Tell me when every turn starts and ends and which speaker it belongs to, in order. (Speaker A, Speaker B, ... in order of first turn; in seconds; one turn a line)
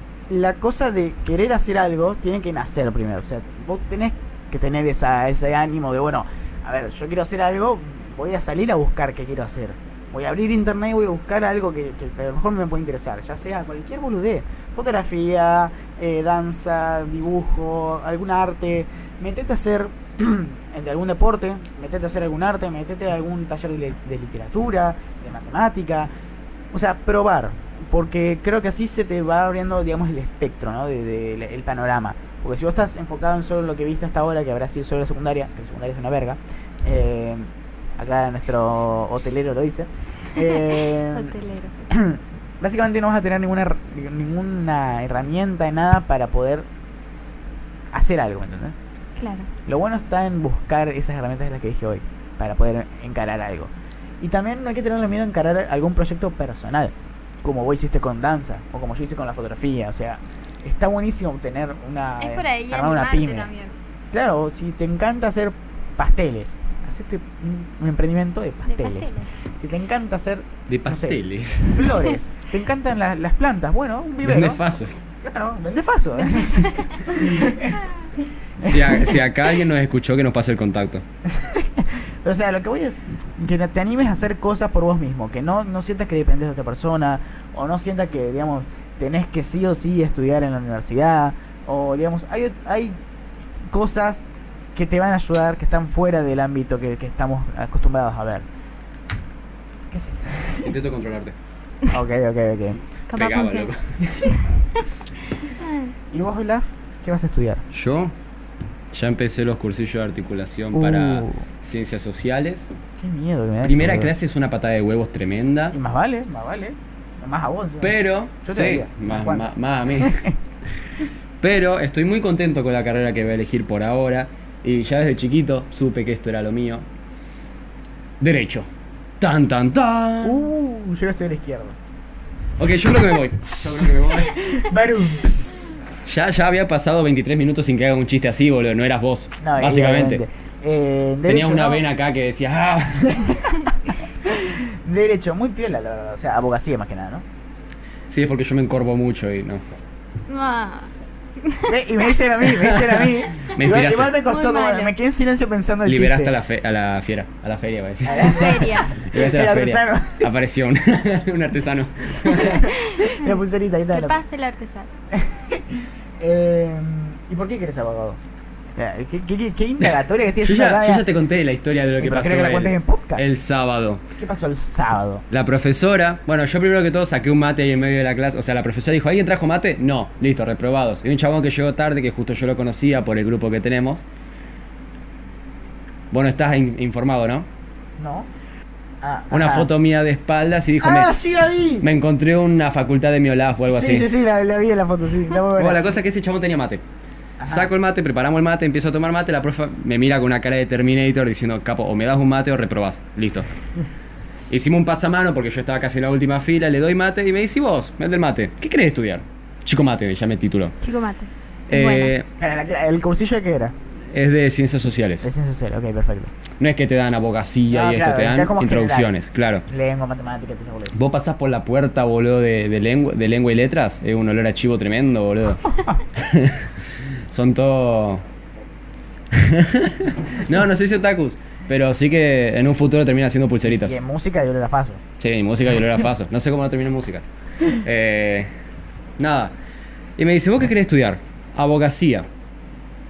Speaker A: 0.3-26.1
Speaker A: 26.7-41.4
Speaker B: 40.4-41.7
Speaker A: 41.9-46.7
Speaker A: 47.9-48.8
Speaker B: 49.2-49.5
Speaker A: 49.7-63.5
Speaker B: 62.2-63.8
Speaker A: 64.1-74.6
Speaker B: 68.7-69.3
Speaker C: 70.7-72.0
Speaker C: 74.2-74.9
Speaker A: 75.2-79.2
Speaker B: 76.2-77.0
Speaker C: 78.6-81.0
Speaker A: 81.3-93.0
Speaker A: 93.6-98.5
Speaker A: 99.9-100.8
Speaker C: 100.6-101.3
Speaker A: 101.9-102.8
Speaker B: 103.1-103.7
Speaker C: 103.2-104.0
Speaker A: 104.0-104.3
Speaker B: 104.2-104.8
Speaker B: 105.4-105.9
Speaker A: 106.1-107.6
Speaker C: 107.7-108.1
Speaker C: 108.9-112.7
Speaker A: 110.7-111.4
Speaker A: 113.0-114.1
Speaker C: 113.6-115.8
Speaker A: 115.7-120.3
Speaker C: 117.8-120.3
Speaker C: 121.4-126.8
Speaker C: 128.2-128.7
Speaker C: 129.2-130.4
Speaker A: 130.2-131.8
Speaker C: 132.6-134.4
Speaker A: 133.5-135.8
Speaker C: 136.1-140.2
Speaker A: 139.4-141.8
Speaker C: 141.3-143.4
Speaker A: 143.0-143.6
Speaker A: 144.2-147.2
Speaker C: 148.1-149.6
Speaker B: 150.3-150.9
Speaker B: 151.4-151.8
Speaker A: 151.7-156.4
Speaker C: 152.5-154.1
Speaker B: 154.3-154.9
Speaker C: 155.9-162.7
Speaker A: 158.1-160.3
Speaker B: 158.2-159.0
Speaker A: 162.3-164.2
Speaker B: 162.4-163.4
Speaker B: 163.9-164.9
Speaker A: 165.1-168.2
Speaker A: 168.8-171.1
Speaker C: 170.4-174.0
Speaker A: 172.0-173.3
Speaker A: 174.2-175.2
Speaker C: 175.3-184.0
Speaker C: 186.1-187.5
Speaker A: 188.0-188.3
Speaker A: 189.0-189.7
Speaker C: 189.3-191.1
Speaker A: 190.8-191.9
Speaker C: 191.8-194.1
Speaker A: 193.7-195.9
Speaker C: 195.6-196.8
Speaker A: 197.4-197.7
Speaker C: 197.5-203.5
Speaker C: 204.5-210.8
Speaker B: 210.8-212.1
Speaker C: 211.7-212.3
Speaker A: 212.4-213.7
Speaker C: 214.1-215.2
Speaker A: 215.2-216.3
Speaker C: 216.6-219.6
Speaker A: 217.7-219.1
Speaker A: 219.7-221.0
Speaker C: 220.9-228.2
Speaker C: 229.3-234.0
Speaker A: 233.7-235.0
Speaker C: 235.2-238.5
Speaker C: 239.2-239.5
Speaker C: 240.2-242.3